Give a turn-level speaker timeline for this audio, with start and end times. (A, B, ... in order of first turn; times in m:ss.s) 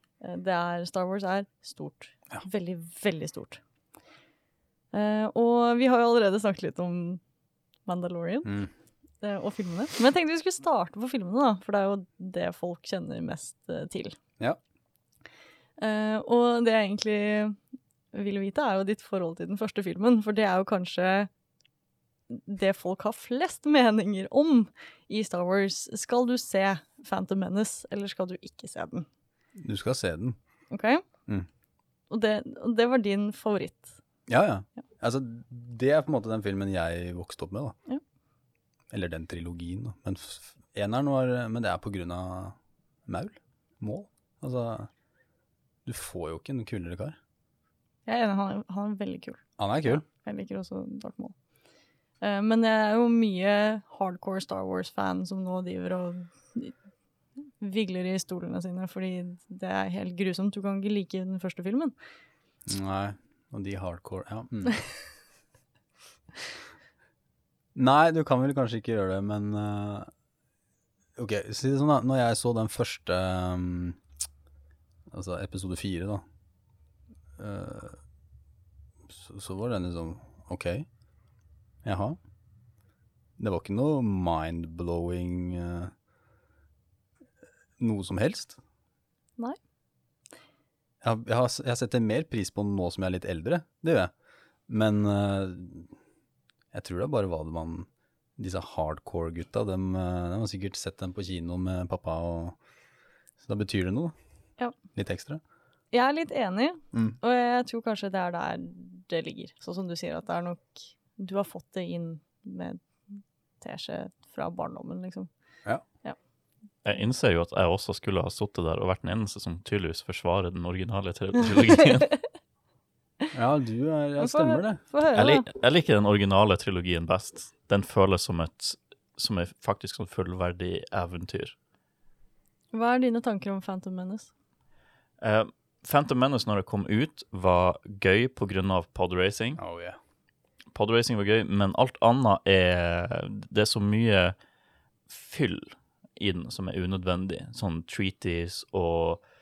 0:00.2-0:03.6 A
0:04.9-0:07.2 A
0:07.8-0:08.6 A
0:08.4-0:08.7 B
0:09.2-0:14.2 A
0:15.8-0:17.6 A
0:18.1-0:21.3 A
0:22.3-0:29.1 A
0:29.6-0:30.4 B
0:30.7-0:31.0 A
0:32.1-0:34.0 A
0:34.3-0:37.8 B
0:38.9-0:44.9 B
0:45.8-0:47.2 B
0:48.1-0:51.3 A
0:49.6-0:50.0 B
0:52.2-0:56.7 A
0:57.6-1:01.9 A
1:02.6-1:04.8 B
1:07.7-1:10.1 B
1:11.2-1:14.0 B
1:15.1-1:16.2 B
1:17.4-1:18.0 B
1:19.1-1:20.9 B
1:21.8-1:22.2 B
1:23.4-1:25.9 B
1:27.8-1:28.6 B
1:31.0-1:34.1 B
1:34.7-1:35.9 B
1:36.7-1:42.6 B
1:43.4-1:44.1 B
1:44.9-1:45.4 B
1:45.9-1:55.3 A
1:46.9-1:47.2 B
1:56.8-2:02.1 C
2:03.3-2:04.8 B
2:04.2-2:05.4 A
2:05.1-2:11.5 C
2:12.7-2:14.3 A
2:15.2-2:19.6 C
2:19.6-2:20.0 B
2:20.7-2:24.4 C
2:25.1-2:29.2 C